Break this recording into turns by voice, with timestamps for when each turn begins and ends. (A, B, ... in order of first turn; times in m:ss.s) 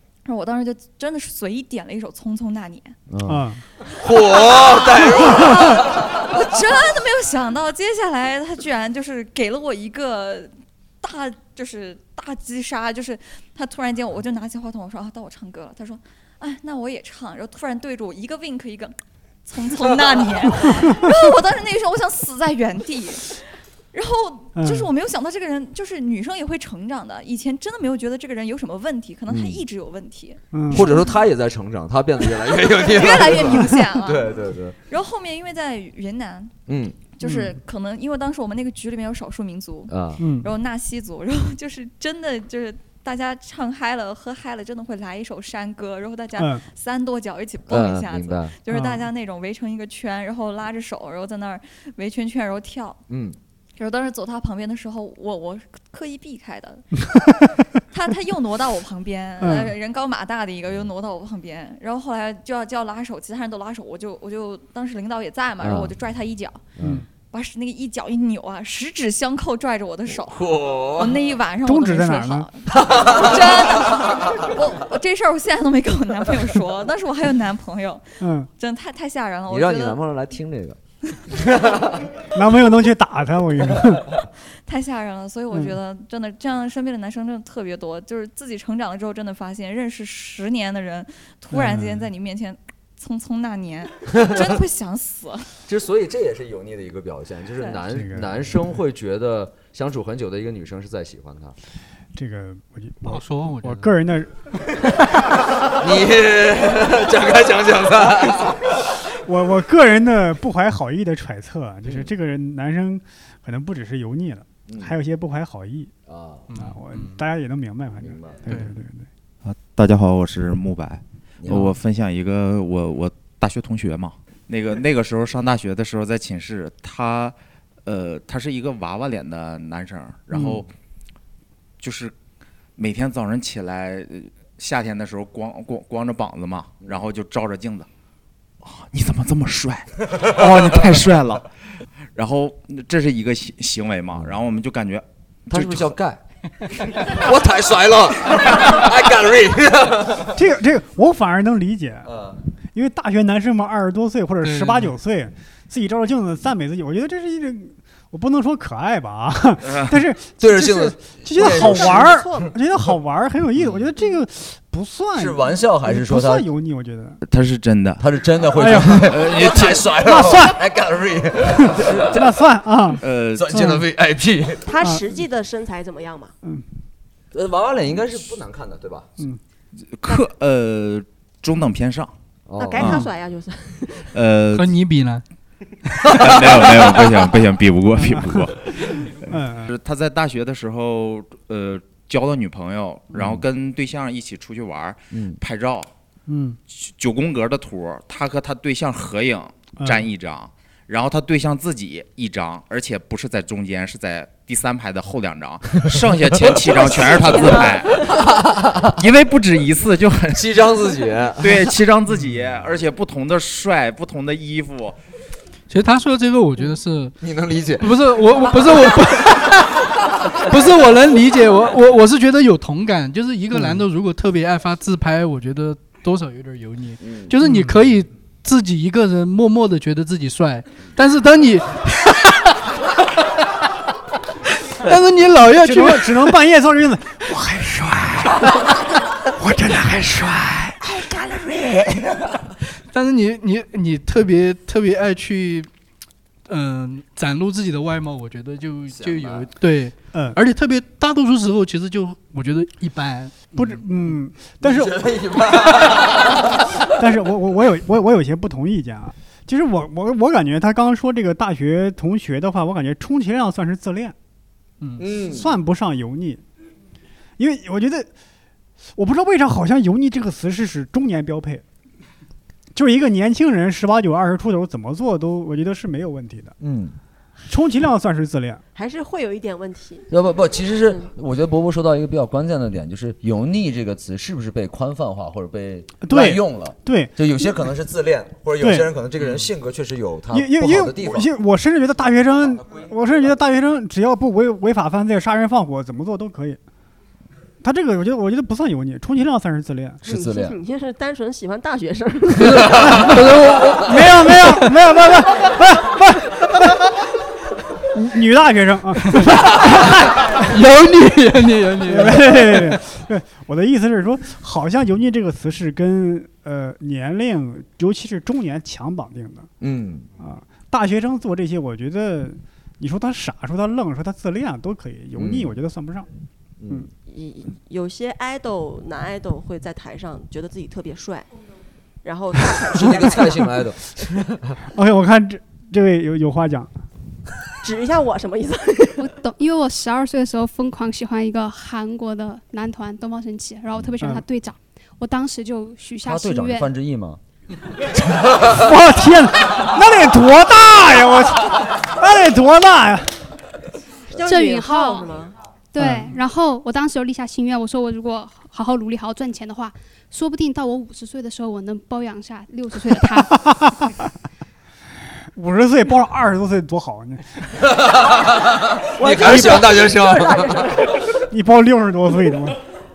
0:00.3-0:03.0 A
0:03.1-0:06.1 B
0:03.2-0:03.6 C
0:04.2-0:23.4 A
0:23.9-0:31.2 A
0:24.6-0:24.9 C
0:29.3-0:29.6 B
0:30.5-0:30.9 C
0:30.7-0:34.8 B
0:32.2-0:36.5 A
0:36.7-0:37.0 B
0:37.2-0:53.0 A
0:37.2-0:37.6 C
0:39.9-0:40.3 B
0:40.2-0:40.5 C
0:46.4-0:46.6 C
0:47.7-0:48.6 B
0:48.7-0:49.0 C
0:53.1-0:53.4 B
0:53.8-1:06.7 A
0:59.4-0:59.7 C
1:05.6-1:06.0 B
1:06.8-1:07.0 B
1:06.8-1:07.1 C
1:07.3-1:20.0 A
1:10.1-1:11.2 B
1:11.6-1:12.5 C
1:12.8-1:13.6 B
1:18.2-1:18.5 C
1:19.5-1:20.8 B
1:22.3-1:24.1 C
1:24.7-1:35.5 A
1:31.5-1:32.1 C
1:34.1-1:34.5 B
1:35.7-1:41.6 B
1:37.9-1:38.6 C
1:42.2-1:44.3 C
1:43.0-1:44.0 D
1:45.6-1:48.8 B
1:49.2-1:55.9 C
1:54.7-1:55.0 B
1:56.1-1:56.5 B
1:56.5-1:57.2 D
1:56.6-1:59.1 C
1:58.0-1:58.6 B
1:59.5-2:10.7 E
2:01.4-2:01.7 B
2:11.8-2:12.2 E
2:12.8-2:17.9 E
2:18.6-2:21.5 E
2:22.2-2:25.9 E
2:24.1-2:24.4 B
2:25.5-2:26.2 B
2:26.9-2:30.4 B
2:30.3-2:32.1 C
2:32.0-2:32.4 B
2:32.8-2:47.2 C
2:34.4-2:34.9 D
2:40.4-2:42.3 B
2:41.4-2:42.5 F
2:45.2-2:46.5 B
2:47.2-2:48.0 E
2:48.0-2:52.4 B
2:48.5-2:49.3 C
2:49.0-2:49.8 E
2:50.0-2:50.6 C
2:51.6-2:53.8 C
2:53.0-2:53.6 E
2:53.3-2:54.7 B
2:54.6-2:56.3 F
2:57.3-2:59.1 B
2:59.9-3:02.1 E
3:02.5-3:03.0 B
3:02.6-3:04.1 F
3:04.1-3:04.8 E
3:04.5-3:05.2 D
3:06.2-3:09.1 E
3:08.0-3:09.7 C
3:09.6-3:15.9 E
3:13.1-3:13.4 B
3:15.1-3:15.4 B
3:16.3-3:16.6 C
3:16.7-3:28.1 E
3:19.8-3:20.1 C
3:26.4-3:28.8 B
3:27.4-3:27.7 F
3:28.9-3:30.5 E
3:30.3-3:31.7 B
3:31.4-3:35.0 E
3:35.7-3:37.2 D
3:37.2-3:38.0 B
3:37.8-3:52.5 D
3:47.0-3:47.3 B
3:47.4-3:47.8 C
3:54.8-3:56.4 D
3:55.5-3:58.6 C
3:59.4-4:00.8 C
4:02.9-4:05.7 D
4:06.5-4:14.2 D
4:08.9-4:09.5 B
4:13.6-4:15.0 C
4:14.6-4:16.3 B
4:17.0-4:24.2 C
4:24.8-4:25.1 D
4:25.0-4:25.5 B
4:25.2-4:26.4 C
4:27.4-4:28.1 C
4:29.0-4:31.6 C
4:32.8-4:36.6 C
4:36.6-4:37.0 B
4:37.5-4:38.6 C
4:38.8-4:40.1 F
4:40.1-4:51.3 B
4:46.0-4:47.1 C
4:48.6-4:48.9 C
4:50.3-4:56.6 C
4:57.6-5:00.0 C
5:00.0-5:00.6 B
5:00.1-5:03.0 F
5:02.5-5:04.6 D
5:03.8-5:06.8 C
5:07.9-5:10.5 C
5:10.5-5:12.8 D
5:11.9-5:19.5 C
5:19.6-5:20.1 B
5:20.2-5:26.1 C
5:25.2-5:25.6 B
5:26.6-5:26.9 B
5:27.0-5:31.3 F
5:32.0-5:33.5 F
5:32.7-5:34.6 B
5:34.7-5:36.7 C
5:37.6-5:39.1 F
5:39.0-5:46.7 G
5:46.0-5:47.2 B
5:48.5-5:53.1 C
5:54.1-5:55.3 F
5:54.2-5:55.1 G
5:55.7-6:03.9 G
5:55.8-5:56.2 C
6:05.4-6:07.6 C
6:07.8-6:10.8 B
6:09.0-6:11.2 F
6:11.3-6:12.6 C